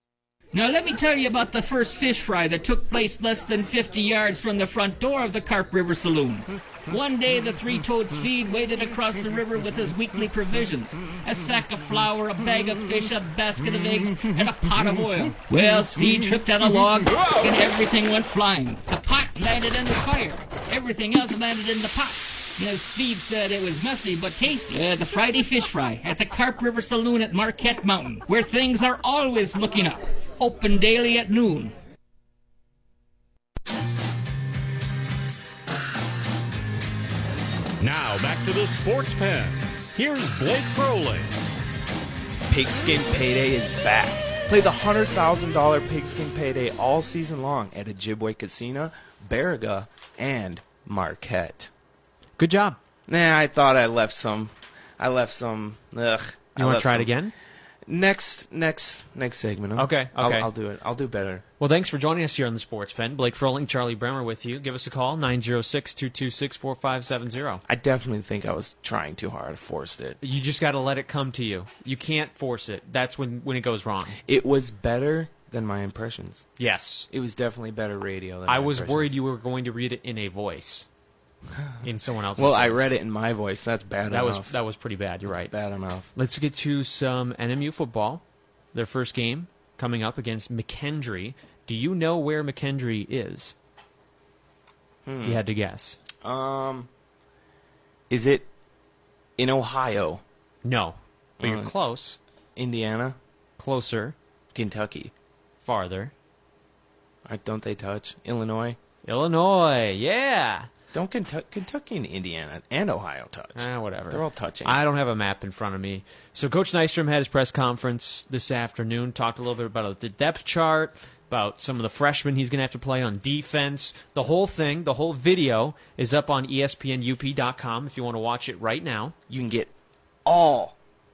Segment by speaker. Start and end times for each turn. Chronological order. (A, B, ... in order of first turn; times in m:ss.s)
0:00.5-0:31.7 A
0:37.8-0:41.3 B
0:42.5-0:51.7 C
0:52.4-0:52.8 D
0:53.1-0:57.1 C
0:56.6-0:57.3 D
0:57.9-1:01.4 C
0:59.8-1:00.5 D
1:01.6-1:07.6 D
1:07.7-1:10.2 C
1:10.2-1:14.2 D
1:14.2-1:16.5 C
1:16.6-1:17.1 D
1:17.1-1:19.2 C
1:18.5-1:20.9 D
1:21.8-1:22.9 D
1:22.4-1:24.5 C
1:24.1-1:25.5 D
1:25.3-1:26.1 C
1:26.2-1:28.2 D
1:28.7-1:33.6 D
1:35.0-1:35.4 C
1:35.2-1:36.0 D
1:36.2-1:36.9 C
1:38.1-1:38.5 C
1:39.4-1:40.2 C
1:40.6-1:42.2 D
1:41.4-1:41.7 C
1:42.6-1:43.2 C
1:43.6-1:44.2 D
1:44.5-1:45.1 C
1:45.6-1:46.1 D
1:47.2-1:48.8 C
1:49.0-1:50.7 D
1:50.9-1:54.8 C
1:53.6-2:09.2 D
2:09.3-2:09.7 C
2:10.2-2:10.8 C